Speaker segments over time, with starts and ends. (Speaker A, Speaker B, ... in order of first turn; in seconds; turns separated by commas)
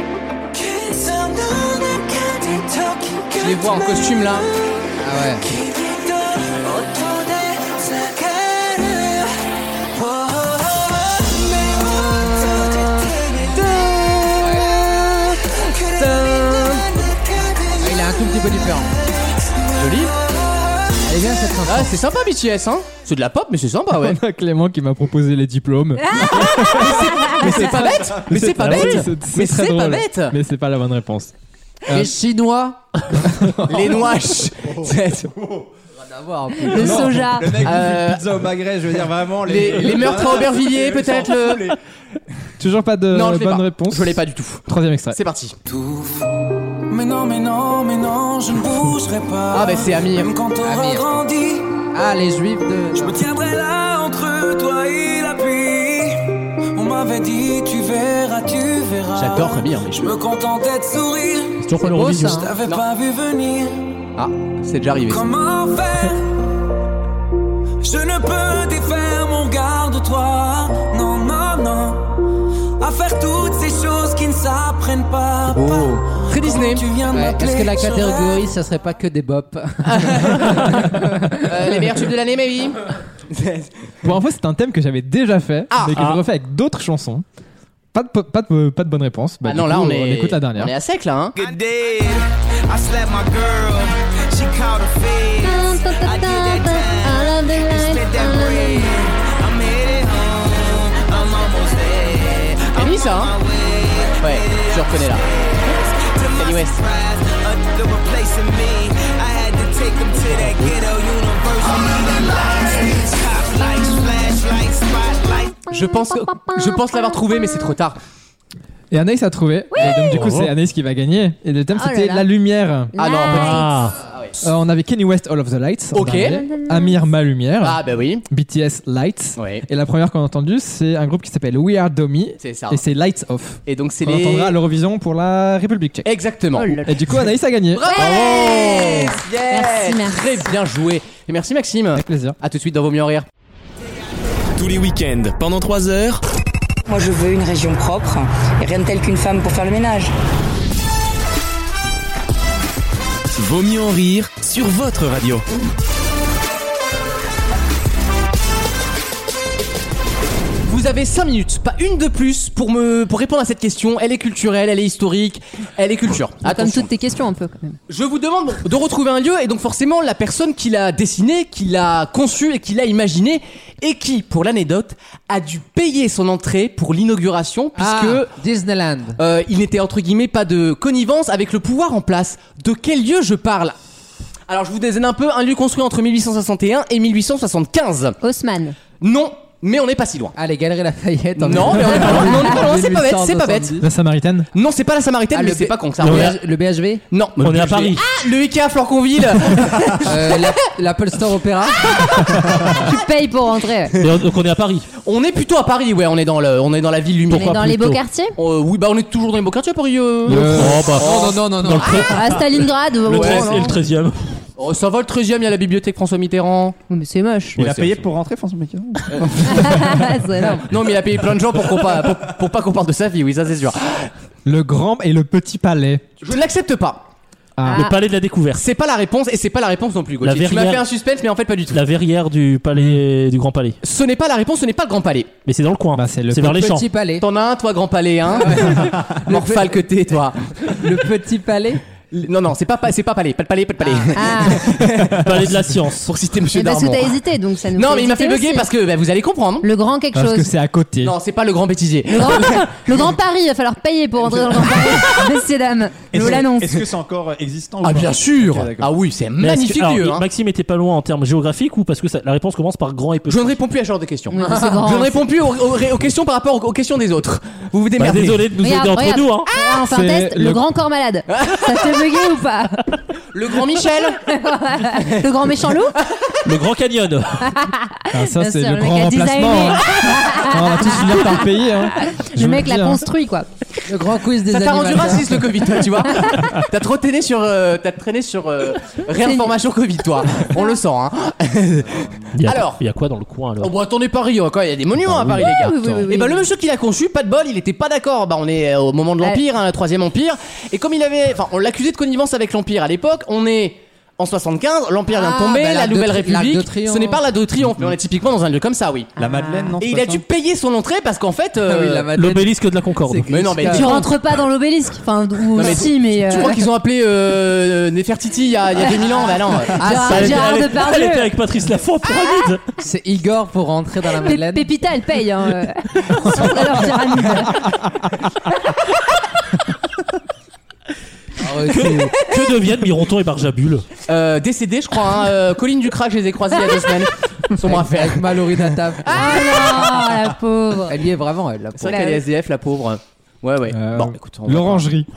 Speaker A: 0.5-4.9, Speaker B: 3.4-4.5, Speaker C: 5.0-5.5, Speaker A: 5.4-18.1, Speaker C: 14.4-14.8, Speaker B: 15.9-16.9, Speaker C: 17.8-18.9, Speaker B: 19.7-20.1, Speaker C: 21.1-21.9, Speaker B: 21.6-24.2, Speaker D: 23.9-31.3, Speaker E: 26.1-27.7, Speaker B: 26.2-30.4, Speaker F: 27.9-28.4, Speaker G: 28.6-29.0, Speaker D: 31.9-32.1, Speaker C: 31.9-32.8, Speaker D: 33.1-34.1, Speaker B: 33.7-35.3, Speaker F: 34.6-35.7, Speaker C: 36.0-36.9, Speaker E: 36.7-37.6, Speaker F: 36.8-41.8, Speaker D: 36.8-37.7, Speaker B: 37.6-38.2, Speaker B: 39.4-41.8, Speaker D: 42.6-45.2, Speaker B: 43.1-45.6, Speaker A: 45.7-51.7, Speaker B: 49.5-50.3, Speaker C: 50.6-51.1, Speaker C: 51.9-53.2, Speaker A: 53.0-64.0, Speaker B: 59.1-60.1, Speaker G: 61.6-62.5, Speaker C: 61.8-62.5, Speaker B: 64.2-65.2, Speaker A: 65.1-66.5, Speaker A: 67.8-78.5, Speaker B: 75.5-76.9, Speaker C: 77.1-81.5, Speaker B: 79.9-83.7, Speaker D: 84.0-87.2, Speaker G: 86.0-86.2, Speaker D: 87.9-90.7, Speaker B: 89.4-91.4, Speaker A: 91.4-115.6, Speaker E: 95.4-99.1, Speaker B: 102.8-103.3, Speaker B: 104.2-105.2, Speaker B: 106.4-106.8, Speaker E: 115.7-117.8, Speaker B: 115.7-118.0, Speaker D: 118.9-122.9, Speaker G: 119.9-120.5, Speaker E: 121.7-122.3, Speaker E: 122.9-123.8, Speaker B: 123.0-124.4, Speaker G: 123.2-124.0, Speaker D: 124.4-136.1, Speaker B: 125.9-126.4, Speaker E: 126.3-127.0, Speaker B: 127.6-128.2, Speaker B: 129.4-129.6, Speaker B: 132.4-132.8, Speaker B: 133.7-134.6, Speaker B: 136.1-136.9, Speaker E: 136.6-136.8, Speaker D: 136.8-137.9, Speaker B: 137.7-143.2, Speaker E: 137.8-140.5, Speaker D: 141.9-142.4, Speaker H: 144.6-146.2, Speaker I: 146.9-150.1, Speaker H: 153.3-155.4, Speaker B: 160.6-166.9, Speaker E: 166.4-167.8, Speaker B: 167.9-178.3, Speaker C: 177.8-179.2, Speaker B: 179.2-183.8, Speaker B: 184.5-188.2, Speaker E: 188.2-188.8, Speaker B: 189.0-190.3, Speaker C: 190.3-193.9, Speaker B: 191.4-193.9, Speaker D: 193.8-194.5, Speaker B: 194.5-196.4, Speaker C: 195.3-197.0, Speaker G: 196.0-196.3, Speaker B: 197.1-200.4, Speaker G: 197.4-198.0, Speaker C: 200.0-202.0, Speaker B: 201.9-202.4, Speaker E: 202.8-204.0, Speaker G: 204.0-204.9, Speaker B: 205.0-207.6, Speaker G: 207.3-208.0, Speaker E: 207.4-208.3, Speaker B: 208.4-212.1, Speaker D: 210.2-210.9, Speaker G: 210.3-214.4, Speaker C: 211.0-212.0, Speaker E: 212.1-213.7, Speaker B: 213.1-213.7, Speaker B: 214.6-216.8, Speaker E: 216.9-217.6, Speaker F: 217.6-219.9, Speaker B: 217.6-218.0, Speaker B: 219.1-220.0, Speaker E: 219.4-220.7, Speaker B: 220.7-224.1, Speaker D: 224.4-226.0, Speaker B: 226.2-227.1, Speaker D: 227.6-227.9, Speaker E: 227.7-227.9, Speaker G: 227.7-228.6, Speaker B: 228.5-231.8, Speaker G: 230.2-230.8, Speaker G: 231.7-233.8, Speaker B: 233.8-235.3, Speaker G: 235.4-236.9, Speaker D: 235.9-236.6, Speaker C: 236.4-237.2, Speaker B: 237.2-240.9, Speaker C: 238.5-239.6, Speaker C: 240.7-241.8, Speaker B: 242.1-247.2, Speaker C: 243.8-244.1, Speaker E: 244.1-244.8, Speaker G: 245.1-246.1, Speaker E: 246.5-248.7, Speaker B: 247.7-249.7, Speaker E: 249.6-250.5, Speaker D: 250.1-251.1, Speaker B: 251.0-253.2, Speaker E: 252.1-256.8, Speaker B: 254.5-255.3, Speaker F: 256.1-258.9, Speaker B: 257.8-260.2, Speaker G: 259.4-263.6, Speaker B: 263.3-268.5, Speaker E: 264.3-265.2, Speaker G: 268.0-269.5, Speaker E: 268.6-272.9, Speaker D: 269.8-270.6, Speaker B: 271.3-272.0, Speaker B: 273.3-274.2, Speaker E: 274.2-275.9, Speaker G: 276.4-277.6, Speaker E: 277.5-283.5, Speaker D: 278.1-283.1, Speaker C: 283.9-285.5, Speaker B: 284.4-292.8, Speaker E: 289.2-289.6, Speaker G: 292.3-293.7, Speaker B: 293.6-309.2, Speaker D: 295.1-296.1, Speaker E: 295.5-296.5, Speaker C: 305.1-307.2, Speaker F: 309.1-310.2, Speaker E: 309.2-309.7, Speaker B: 309.8-312.1, Speaker C: 311.6-314.1, Speaker G: 312.1-313.4, Speaker B: 313.3-314.1, Speaker E: 313.6-316.6, Speaker B: 315.6-319.9, Speaker E: 318.9-321.3, Speaker C: 319.8-320.4, Speaker G: 319.9-322.6, Speaker E: 322.2-322.5, Speaker C: 322.8-324.7, Speaker E: 324.2-327.8, Speaker C: 331.4-332.1, Speaker G: 331.7-333.9, Speaker B: 334.1-340.1, Speaker C: 337.6-339.4, Speaker E: 339.1-341.0, Speaker C: 340.9-342.0, Speaker B: 341.8-344.9, Speaker E: 341.9-342.2, Speaker D: 343.7-345.1